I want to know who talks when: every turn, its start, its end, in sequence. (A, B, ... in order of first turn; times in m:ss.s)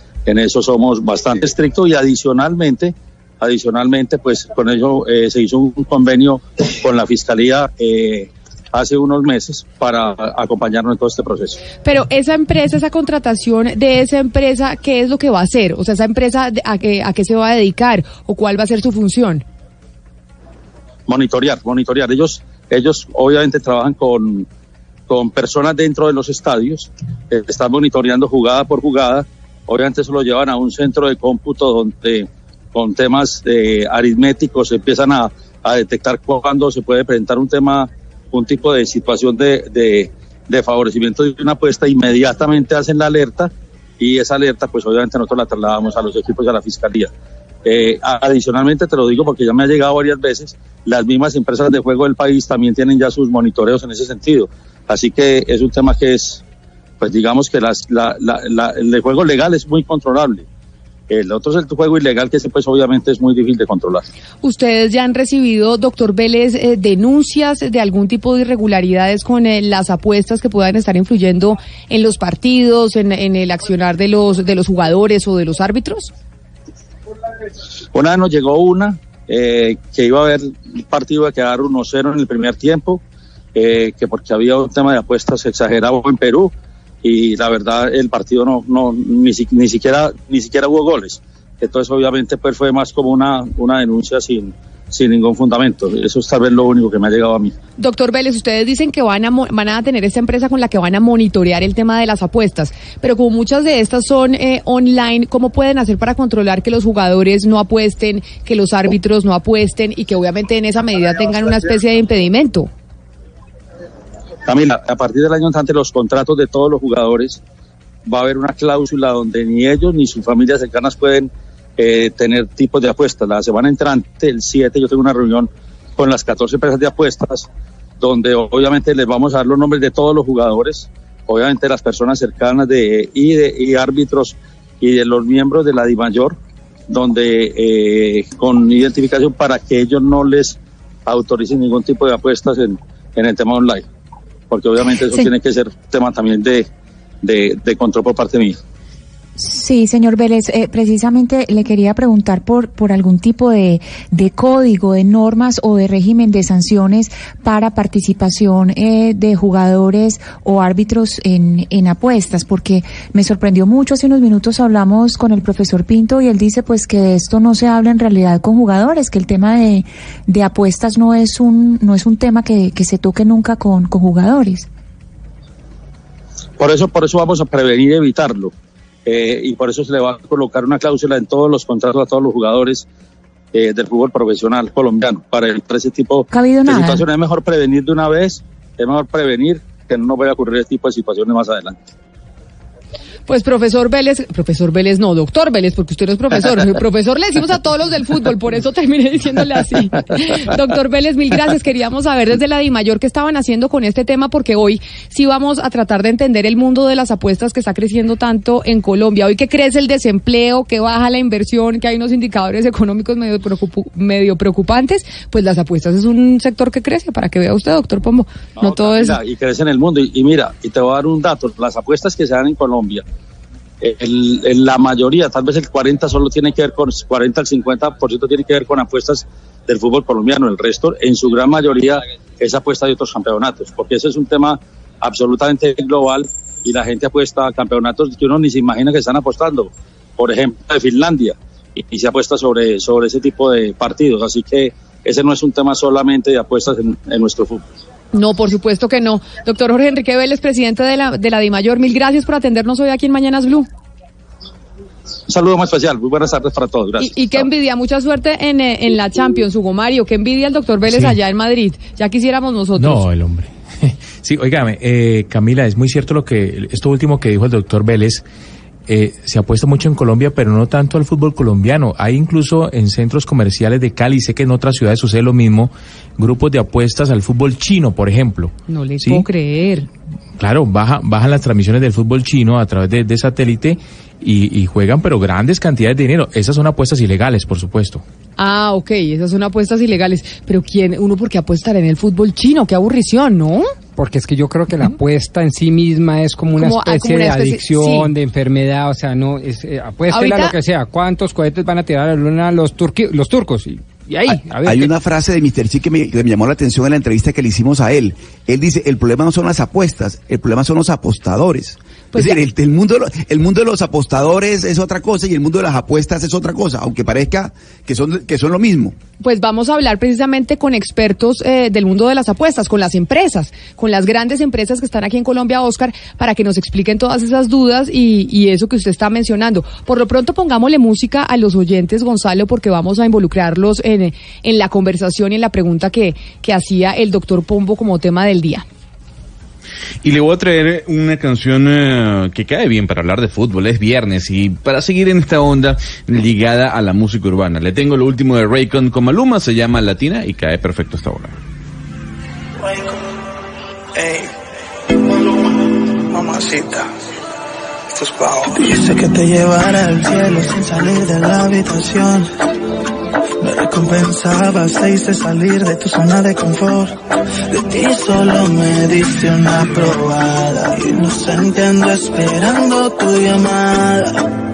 0:00.3-0:11.6 A
0:11.8-0:19.4 B
0:21.1-0:24.5 A
0:25.1-0:47.1 A
0:47.6-0:56.4 A
0:57.0-1:00.4 A
1:01.1-1:04.1 A
1:04.4-1:16.1 B
1:17.9-1:23.0 A
1:23.6-1:37.5 A
1:37.8-1:52.7 B
1:54.5-1:57.4 A
1:58.1-2:07.5 A
2:08.0-2:16.4 A
2:16.9-2:23.9 A
2:24.5-2:26.7 A
2:27.2-2:28.6 A
2:29.4-2:54.7 C
2:56.6-2:58.5 A
2:59.1-3:02.8 A
3:03.5-3:11.8 A
3:06.3-3:07.0 C
3:13.3-3:39.2 B
3:38.6-3:43.0 A
3:43.8-4:07.6 A
4:08.1-4:13.7 B
4:15.3-4:17.5 A
4:17.0-4:23.0 B
4:20.9-4:21.2 D
4:22.8-4:28.3 D
4:28.9-4:39.3 D
4:38.7-4:39.9 B
4:40.4-4:48.0 D
4:48.4-4:53.7 B
4:54.0-5:04.9 E
4:56.6-4:58.1 B
5:00.1-5:00.6 B
5:04.6-5:19.0 F
5:12.1-5:12.4 B
5:19.2-5:38.7 B
5:40.0-5:51.4 G
5:52.6-5:53.0 H
5:54.0-5:54.3 H
5:55.0-5:56.9 H
5:57.9-6:02.3 H
6:03.4-6:07.0 H
6:07.5-6:14.3 H